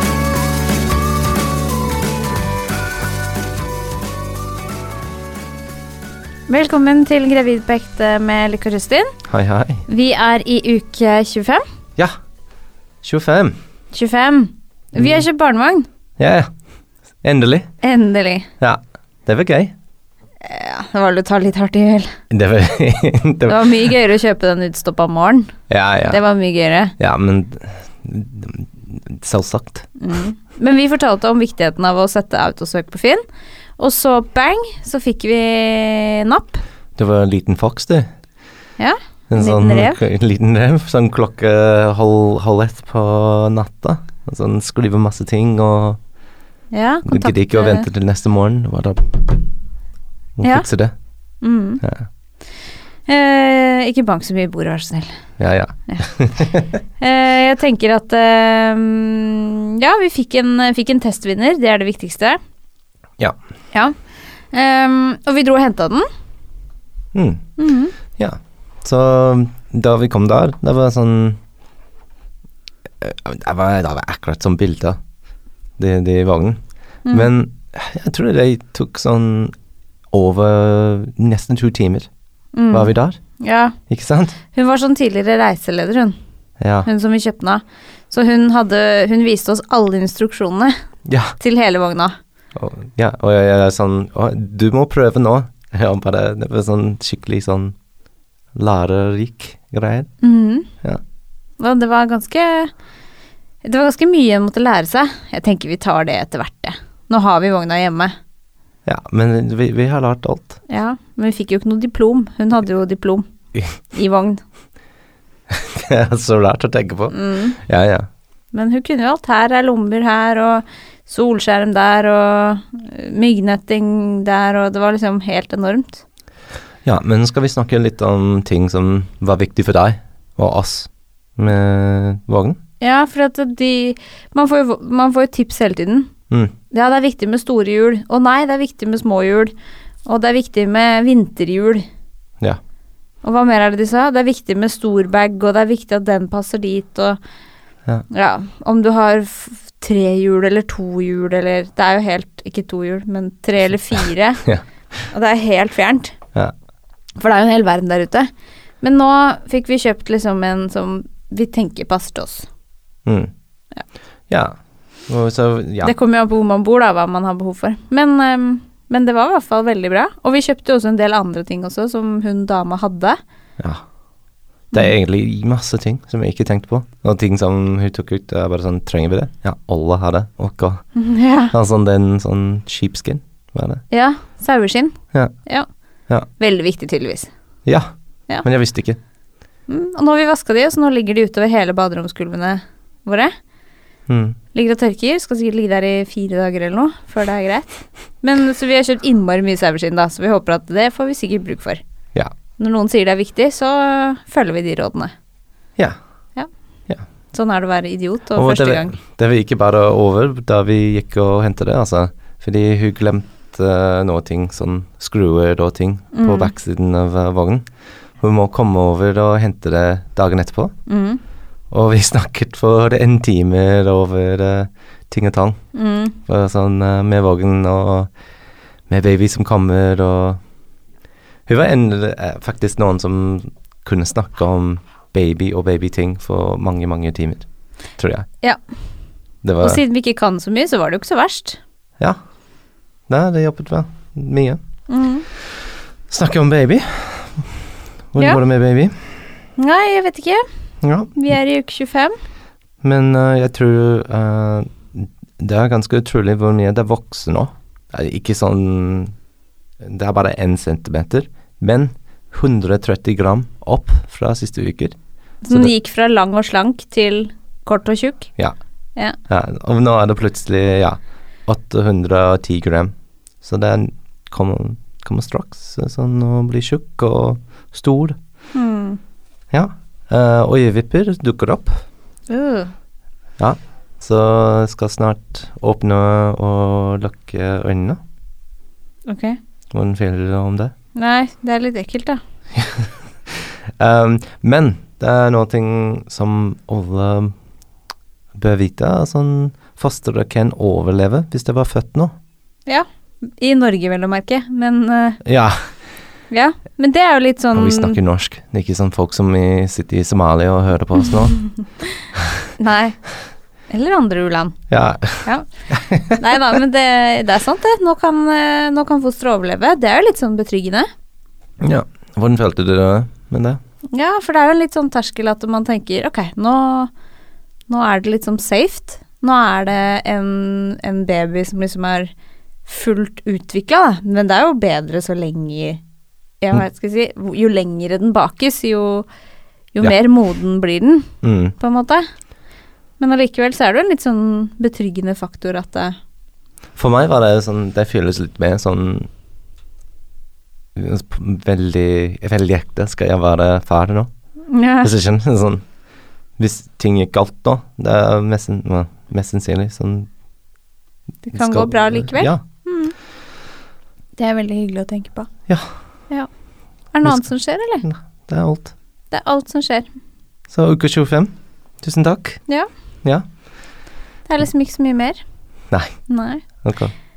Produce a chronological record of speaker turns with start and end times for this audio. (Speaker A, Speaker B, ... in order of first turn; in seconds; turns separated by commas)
Speaker A: 6.5-9.1, Speaker B: 9.3-9.8, Speaker A: 9.9-11.6, Speaker B: 13.0-13.6, Speaker A: 13.9-15.9, Speaker B: 16.2-16.5, Speaker B: 17.2-17.7, Speaker A: 17.8-18.5, Speaker B: 18.6-19.7, Speaker A: 20.4-22.1, Speaker B: 22.3-23.9, Speaker A: 23.4-26.9, Speaker B: 25.7-26.2, Speaker B: 27.0-29.9, Speaker A: 30.0-33.2, Speaker A: 33.8-36.6, Speaker B: 37.0-38.1, Speaker A: 38.8-40.0, Speaker B: 39.3-46.0, Speaker A: 46.7-47.9, Speaker B: 47.0-49.4, Speaker B: 50.4-50.9, Speaker A: 51.4-51.8, Speaker B: 51.8-52.1, Speaker A: 53.1-55.1, Speaker B: 55.4-56.7, Speaker A: 57.0-62.4, Speaker A: 64.5-66.0, Speaker B: 67.1-67.4, Speaker A: 67.6-67.9, Speaker B: 68.2-71.4, Speaker B: 73.0-75.0, Speaker B: 75.8-79.5, Speaker B: 80.1-82.1, Speaker A: 82.5-83.7, Speaker B: 82.7-83.2, Speaker B: 83.9-84.4, Speaker A: 84.5-86.2, Speaker B: 86.6-86.9, Speaker A: 86.8-90.7, Speaker B: 91.1-91.3, Speaker A: 91.4-92.1, Speaker B: 92.5-97.7, Speaker B: 98.5-100.1, Speaker A: 100.2-100.7, Speaker A: 101.6-102.7, Speaker A: 103.6-108.1, Speaker B: 108.8-110.6, Speaker A: 110.7-114.4, Speaker B: 115.5-118.1, Speaker A: 117.1-117.6, Speaker A: 118.5-126.0, Speaker B: 126.8-132.6, Speaker A: 132.8-136.1, Speaker A: 136.7-139.5, Speaker A: 140.1-141.8, Speaker A: 143.2-147.2, Speaker A: 148.1-154.4, Speaker A: 155.1-156.1, Speaker A: 157.2-158.3, Speaker A: 158.8-162.5, Speaker B: 163.1-163.3, Speaker B: 164.3-165.9, Speaker A: 165.8-173.2, Speaker B: 174.7-180.8, Speaker A: 180.9-181.5, Speaker B: 181.5-183.8, Speaker A: 183.9-184.9, Speaker A: 186.4-187.3, Speaker B: 187.7-189.0, Speaker A: 189.7-193.3, Speaker B: 194.1-194.4, Speaker A: 194.5-201.8, Speaker A: 202.6-205.1, Speaker A: 207.3-209.0, Speaker B: 208.3-217.6, Speaker A: 216.1-216.5, Speaker B: 218.2-220.7, Speaker A: 220.9-221.2, Speaker B: 221.7-225.6, Speaker A: 225.7-226.2, Speaker B: 226.2-228.1, Speaker B: 228.9-230.4, Speaker B: 231.5-237.5, Speaker B: 238.0-238.3, Speaker B: 239.4-239.8, Speaker A: 239.6-241.6, Speaker B: 243.1-244.6, Speaker A: 244.9-245.2, Speaker B: 246.1-247.5, Speaker B: 248.1-248.9, Speaker A: 249.6-250.4, Speaker B: 250.8-251.1, Speaker A: 251.1-252.1, Speaker B: 252.8-259.1, Speaker B: 259.8-265.0, Speaker A: 265.4-268.3, Speaker B: 269.3-278.2, Speaker A: 278.5-279.0, Speaker B: 279.5-281.8, Speaker A: 282.3-282.7, Speaker B: 283.4-288.0, Speaker A: 289.1-289.4, Speaker B: 289.7-290.7, Speaker A: 290.9-292.2, Speaker B: 292.6-297.3, Speaker B: 298.4-302.1, Speaker A: 302.7-305.2, Speaker B: 305.2-305.6, Speaker A: 306.3-308.0, Speaker B: 307.5-311.4, Speaker A: 312.6-313.0, Speaker A: 313.7-314.6, Speaker B: 314.7-316.2, Speaker A: 316.1-320.9, Speaker B: 321.6-323.6, Speaker A: 323.9-326.9, Speaker A: 327.7-332.1, Speaker A: 332.6-335.8, Speaker A: 336.4-339.1, Speaker A: 339.7-342.0, Speaker B: 341.2-341.5, Speaker A: 343.0-345.9, Speaker B: 346.8-349.1, Speaker B: 350.7-354.1, Speaker A: 354.5-354.9, Speaker B: 354.8-355.6, Speaker B: 356.4-360.1, Speaker A: 361.2-362.9, Speaker B: 361.3-362.4, Speaker A: 364.2-365.3, Speaker B: 365.5-365.8, Speaker A: 366.9-367.8, Speaker B: 367.0-368.7, Speaker A: 369.1-369.9, Speaker B: 370.5-372.4, Speaker A: 374.3-375.2, Speaker A: 376.1-376.4, Speaker B: 376.6-376.9